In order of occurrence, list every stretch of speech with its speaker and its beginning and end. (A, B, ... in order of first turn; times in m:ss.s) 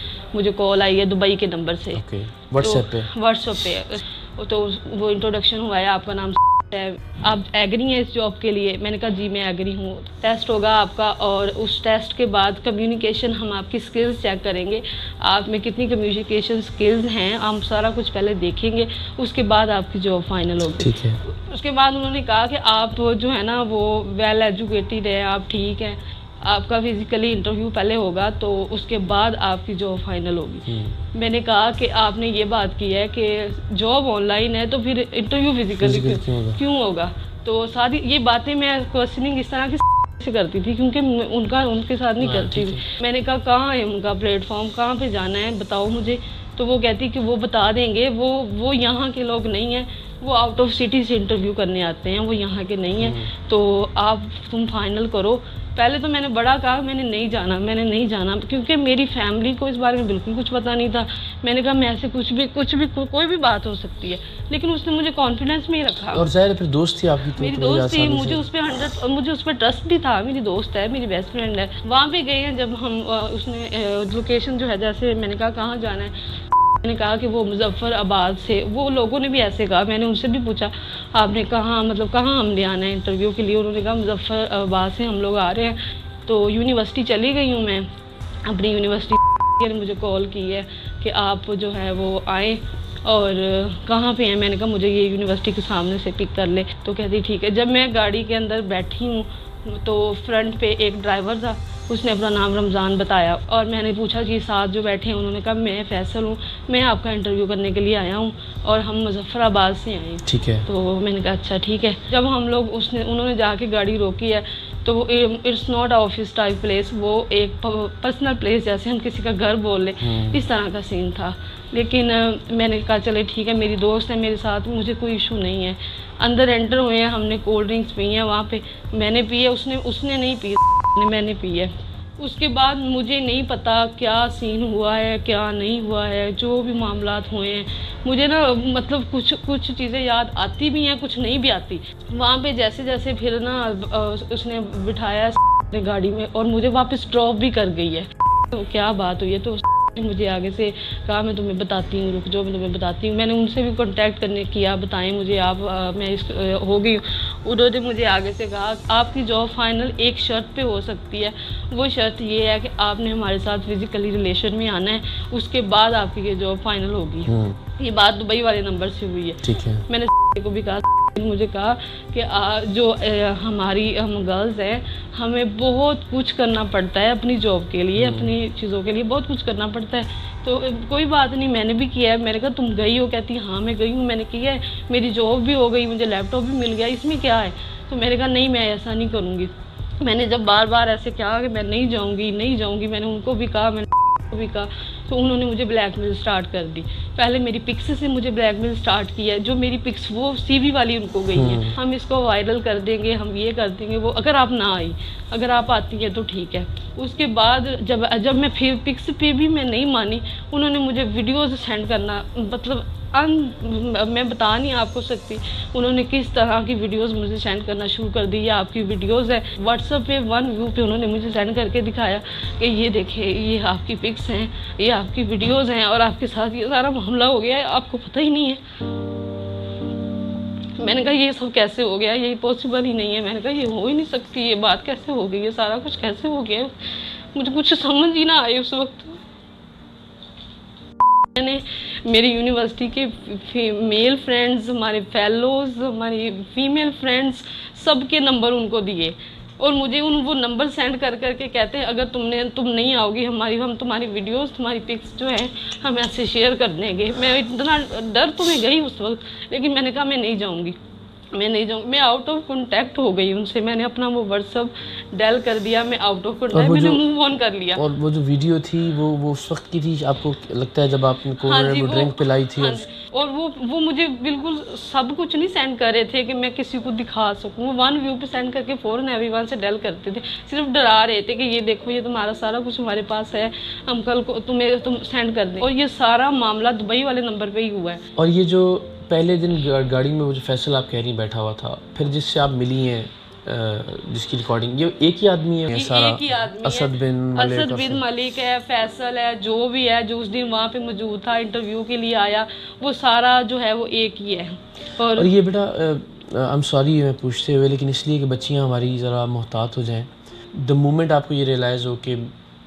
0:00.3-0:02.0 A
0:01.9-0:03.1 B
0:02.6-1:06.3 A
0:20.8-0:21.2 B
0:30.7-0:31.0 B
0:35.8-0:36.6 B
0:42.2-0:42.8 B
0:53.0-0:53.3 B
1:06.1-1:08.4 B
1:07.4-1:16.1 A
1:16.8-1:27.9 A
1:28.4-3:48.6 A
1:50.3-1:50.6 B
2:00.0-2:00.4 B
2:49.4-2:49.8 B
2:58.0-2:58.3 B
3:21.3-3:21.8 B
3:50.8-3:59.2 A
4:01.3-4:20.8 A
4:21.3-4:27.8 A
4:26.5-4:27.0 B
4:27.7-4:32.8 B
4:31.4-4:48.0 A
4:48.2-4:58.0 B
4:55.7-5:05.3 A
5:05.1-5:12.3 B